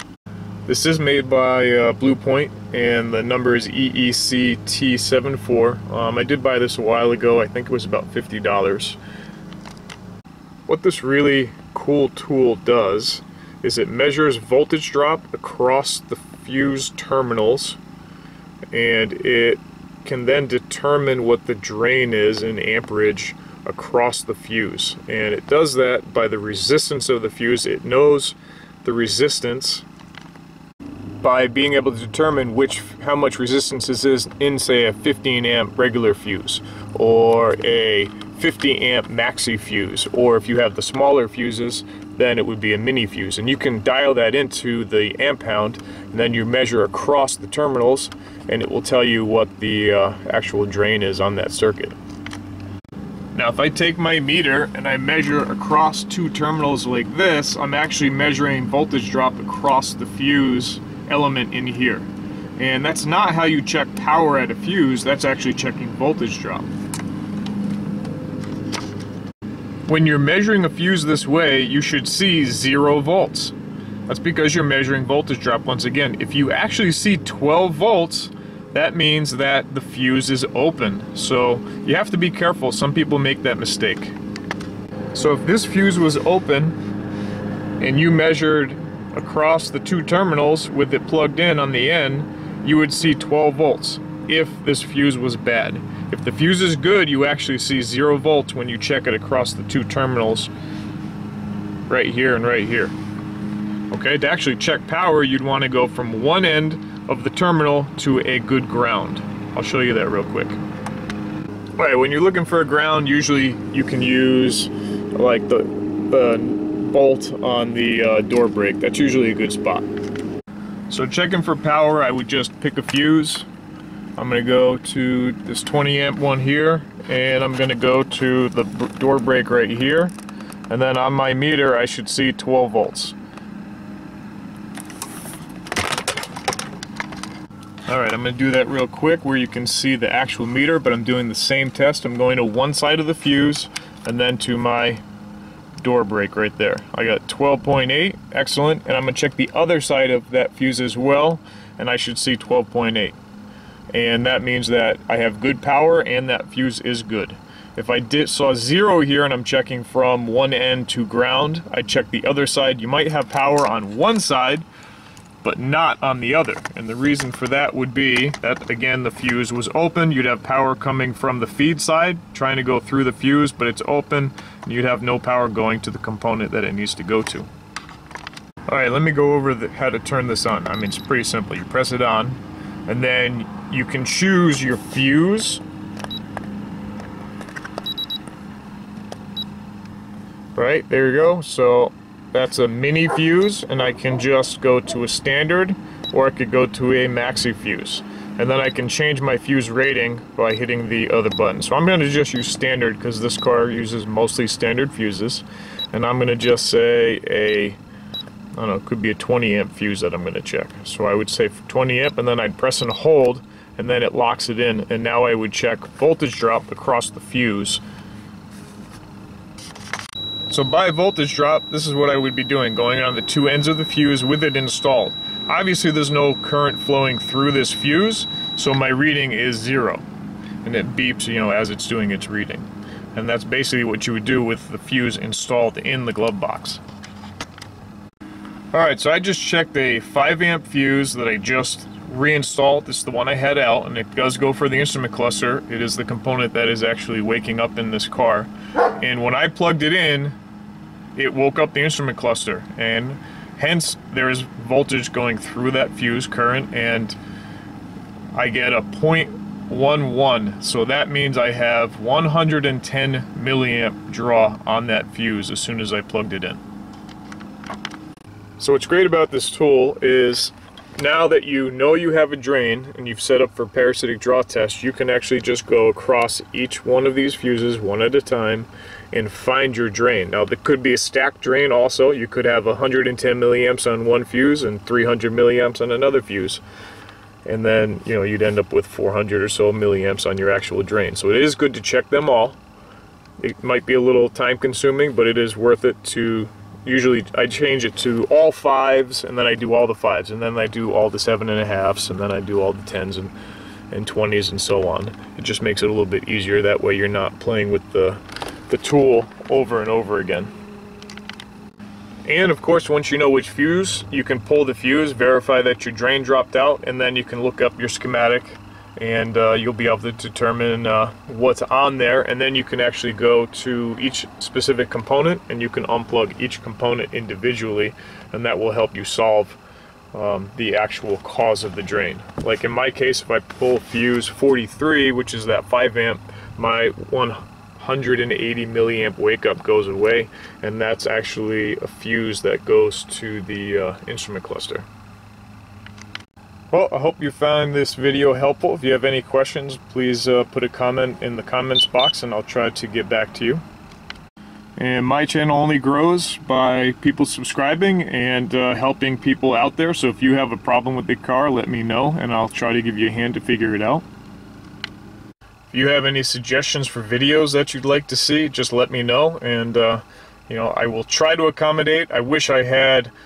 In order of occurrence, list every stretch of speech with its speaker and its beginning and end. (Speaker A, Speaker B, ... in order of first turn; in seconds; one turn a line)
Speaker A: 0.7-9.0
Speaker A: 10.7-17.8
Speaker A: 18.7-29.9
Speaker A: 31.2-52.0
Speaker A: 53.3-66.7
Speaker A: 69.9-73.5
Speaker A: 74.1-84.2
Speaker A: 85.1-86.8
Speaker A: 87.8-100.5
Speaker A: 101.9-103.0
Speaker A: 103.9-110.6
Speaker A: 111.8-119.9
Speaker A: 120.9-123.5
Speaker A: 124.2-130.2
Speaker A: 130.7-133.2
Speaker A: 137.9-145.0
Speaker A: 145.8-153.2
Speaker A: 153.9-164.7
Speaker A: 165.4-177.5
Speaker A: 178.7-185.6
Speaker A: 190.6-207.8
Speaker A: 208.6-217.8
Speaker A: 220.5-230.1
Speaker A: 230.6-236.8
Speaker A: 238.7-250.4
Speaker A: 251.2-257.2
Speaker A: 258.3-266.6
Speaker A: 268.6-286.6
Speaker A: 287.4-292.6
Speaker A: 293.4-303.3
Speaker A: 303.9-310.5
Speaker A: 312.2-329.6
Speaker A: 330.1-344.9
Speaker A: 346.7-353.6
Speaker A: 354.8-364.1
Speaker A: 365.7-373.1